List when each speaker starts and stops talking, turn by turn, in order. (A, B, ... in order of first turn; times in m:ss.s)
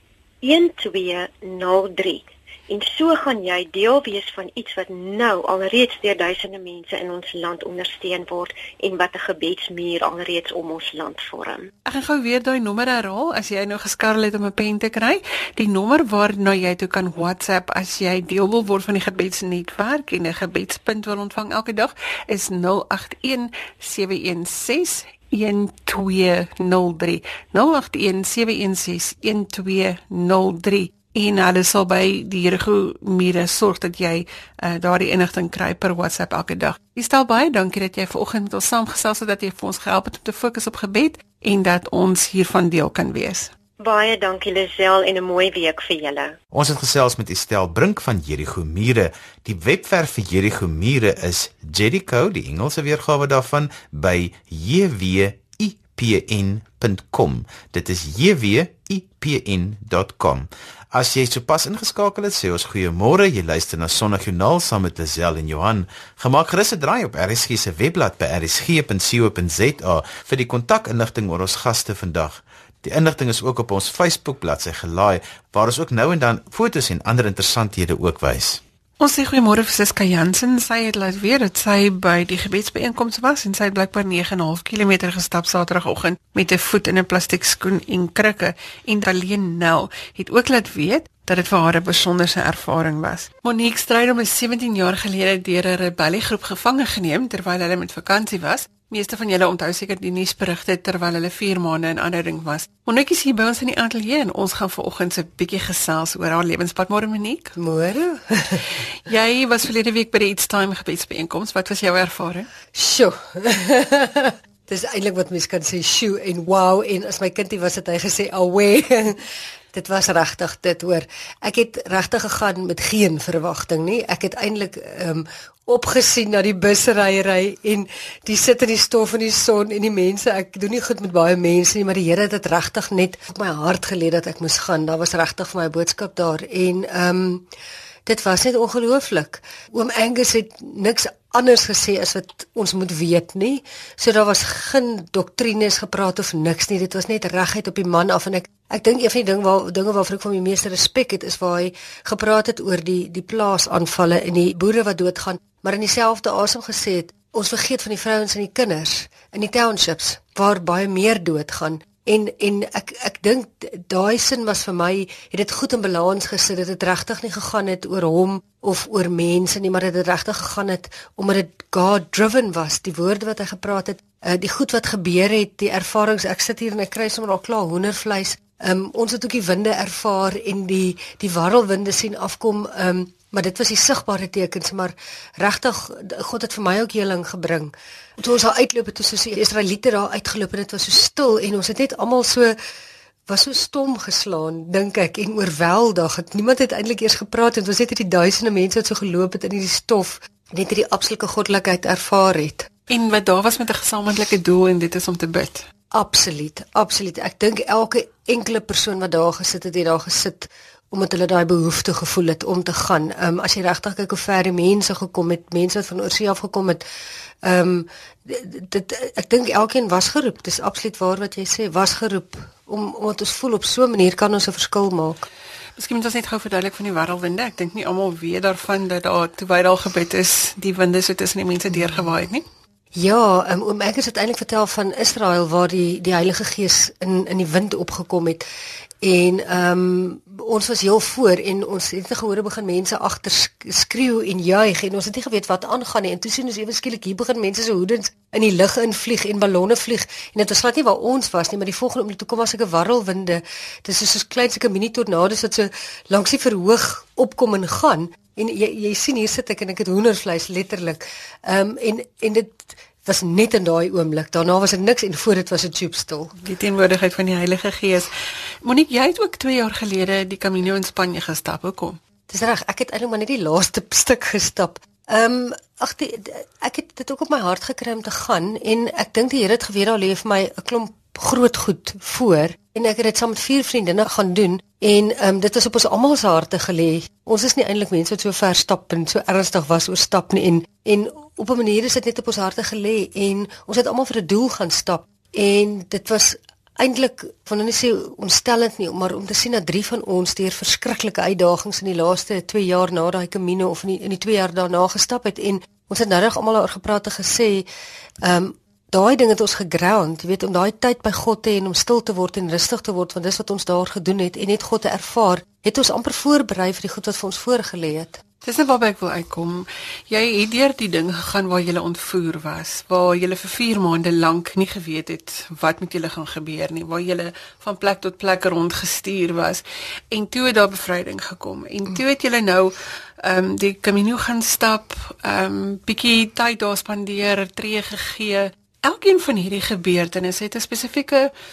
0:00.4-0:11.7 A
0:11.8-0:43.5 B
0:43.8-0:46.4 A
0:46.5-1:18.6 C
1:19.0-1:47.5 B
1:47.6-1:48.7 D
1:49.0-1:52.5 B
1:52.7-1:59.2 D
1:59.7-2:17.5 D
2:18.0-3:12.6 D
3:13.3-3:22.7 D
3:22.9-3:25.6 B
3:25.9-3:36.8 D
3:37.4-3:45.2 D
3:45.8-3:52.4 B
3:52.9-3:58.4 D
3:59.0-4:26.3 D
4:26.4-4:28.1 B
4:28.6-4:32.0 B
4:32.3-5:07.7 D
5:08.2-5:18.2 D
5:18.4-5:41.3 B